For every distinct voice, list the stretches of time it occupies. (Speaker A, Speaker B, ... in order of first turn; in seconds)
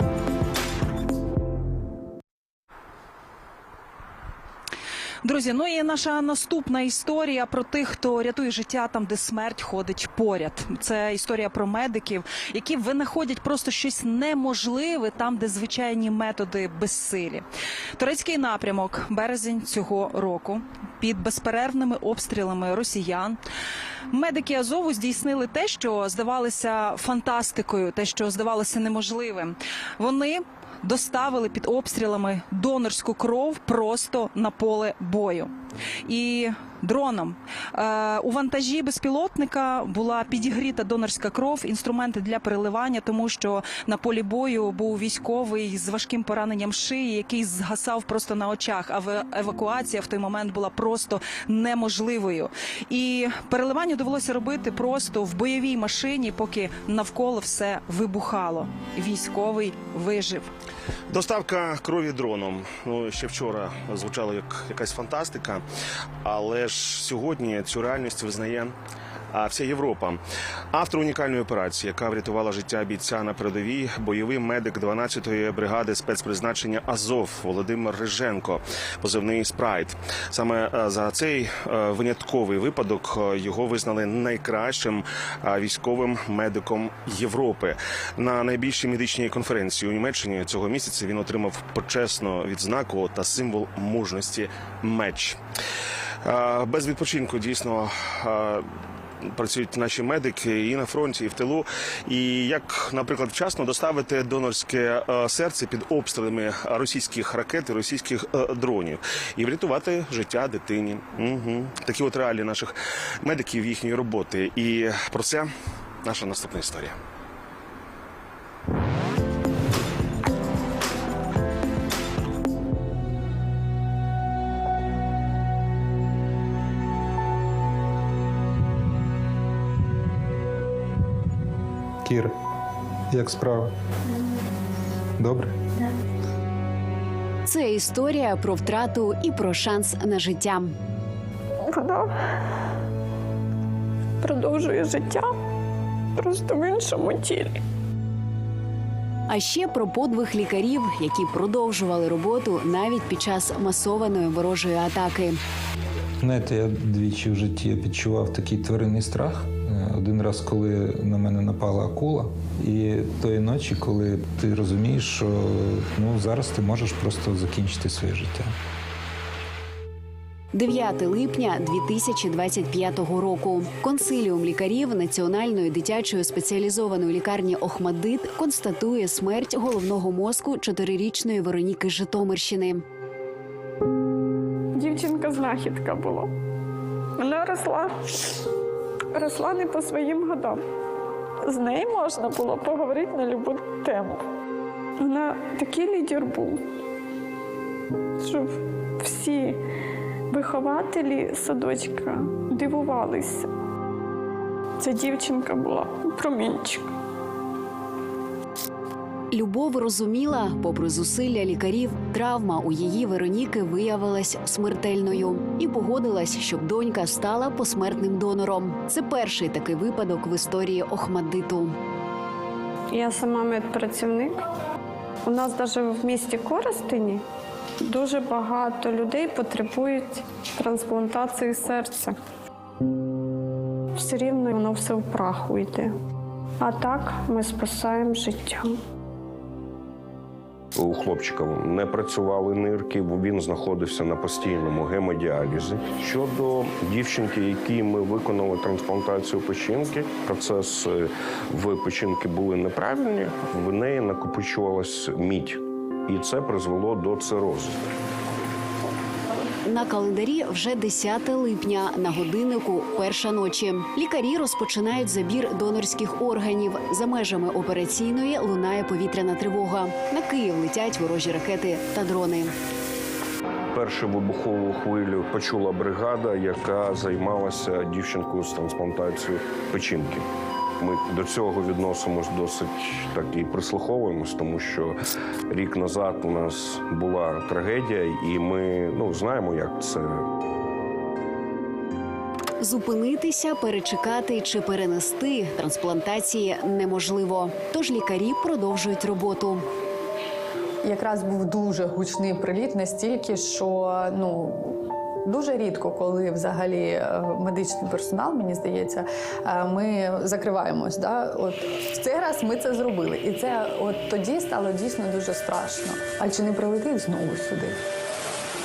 Speaker A: 5.2-17.4, 18.0-23.4, 24.1-35.5, 36.0-60.5
Speaker B: 61.1-65.6, 66.2-68.7, 69.3-70.2, 70.7-95.4, 96.2-98.6, 99.3-115.5, 116.0-117.0
Speaker C: 132.0-132.3, 133.1-133.7, 135.2-135.5, 156.2-168.5
Speaker D: 137.4-140.7, 149.3-155.4, 170.5-182.8, 209.3-221.7, 259.6-272.5, 292.6-299.6
Speaker E: 141.6-142.1, 144.2-145.3, 146.2-147.6, 184.8-186.3, 187.2-188.4, 189.1-190.7, 191.4-194.2, 195.0-196.6, 198.2-199.6, 200.3-203.5, 204.8-206.9, 222.9-224.4, 225.2-227.2, 227.8-232.2, 233.9-235.9, 236.6-238.8
Speaker F: 240.8-257.8, 273.7-280.3, 280.8-285.0, 285.5-290.2
Speaker G: 300.8-317.8